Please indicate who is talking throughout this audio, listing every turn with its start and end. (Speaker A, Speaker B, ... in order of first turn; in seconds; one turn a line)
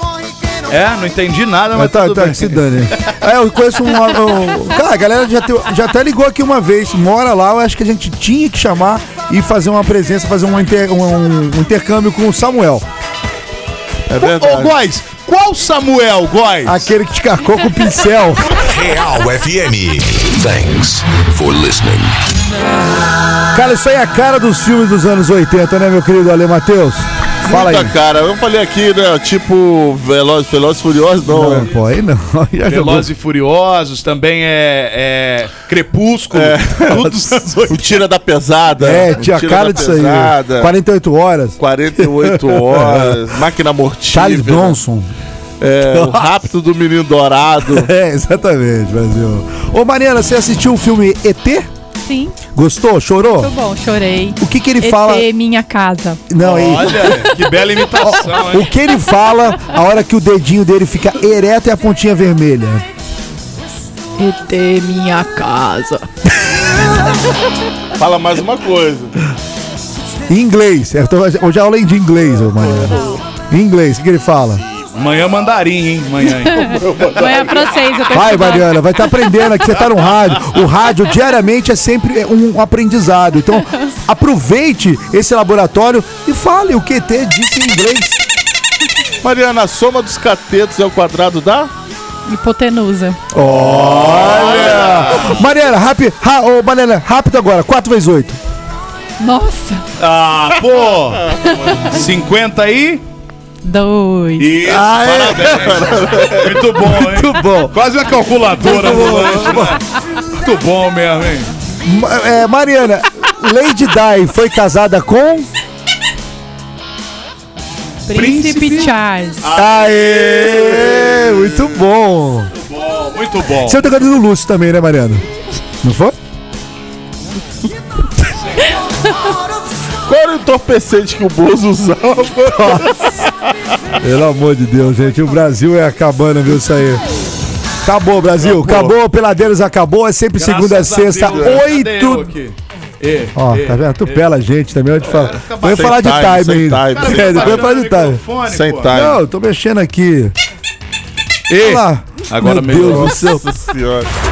Speaker A: 0.7-3.2
Speaker B: 1.7-12.8
Speaker C: 14.1-14.7
Speaker A: 14.2-16.9
Speaker B: 16.6-18.6
Speaker D: 18.6-22.1
Speaker B: 23.5-27.9
Speaker C: 27.4-31.7
Speaker B: 31.3-33.1
Speaker A: 32.6-38.0
Speaker C: 36.3-37.1
Speaker C: 37.7-40.7
Speaker B: 38.8-43.4
Speaker C: 41.6-44.8
Speaker B: 44.1-45.1
Speaker C: 45.6-47.9
Speaker B: 45.8-46.3
Speaker B: 47.6-51.7
Speaker E: 52.0-52.4
Speaker B: 52.5-53.5
Speaker E: 53.2-56.2
Speaker B: 54.4-55.3
Speaker B: 56.3-57.3
Speaker A: 56.4-58.7
Speaker B: 58.0-62.8
Speaker E: 64.2-66.1
Speaker C: 68.0-69.1
Speaker B: 70.3-74.6
Speaker C: 72.7-73.2
Speaker A: 75.0-76.8
Speaker E: 76.3-79.5
Speaker C: 76.7-77.6
Speaker B: 78.1-88.2
Speaker C: 89.2-91.7
Speaker E: 92.2-93.2
Speaker B: 93.3-98.4
Speaker A: 93.3-95.4
Speaker C: 94.1-95.0
Speaker E: 99.2-99.8
Speaker A: 100.0-103.0
Speaker E: 101.5-101.8
Speaker E: 103.6-104.5
Speaker A: 104.4-111.5
Speaker B: 104.6-105.6
Speaker C: 105.2-106.6
Speaker B: 106.8-107.8
Speaker B: 108.5-109.8
Speaker B: 111.8-115.5
Speaker E: 118.1-119.4
Speaker A: 118.1-120.5
Speaker B: 119.5-122.5
Speaker C: 120.2-121.6
Speaker A: 122.6-123.9
Speaker B: 123.6-125.2
Speaker B: 125.8-126.2
Speaker C: 130.1-133.0
Speaker B: 132.6-133.0
Speaker B: 134.0-137.0
Speaker B: 137.8-142.3
Speaker A: 138.5-138.9
Speaker A: 140.4-144.2
Speaker C: 141.2-141.5
Speaker B: 143.3-148.2
Speaker A: 145.0-146.2
Speaker C: 145.6-147.7
Speaker A: 146.9-148.9
Speaker C: 148.5-149.2
Speaker B: 148.9-150.3
Speaker A: 151.5-153.2
Speaker B: 151.6-153.4
Speaker C: 152.7-154.1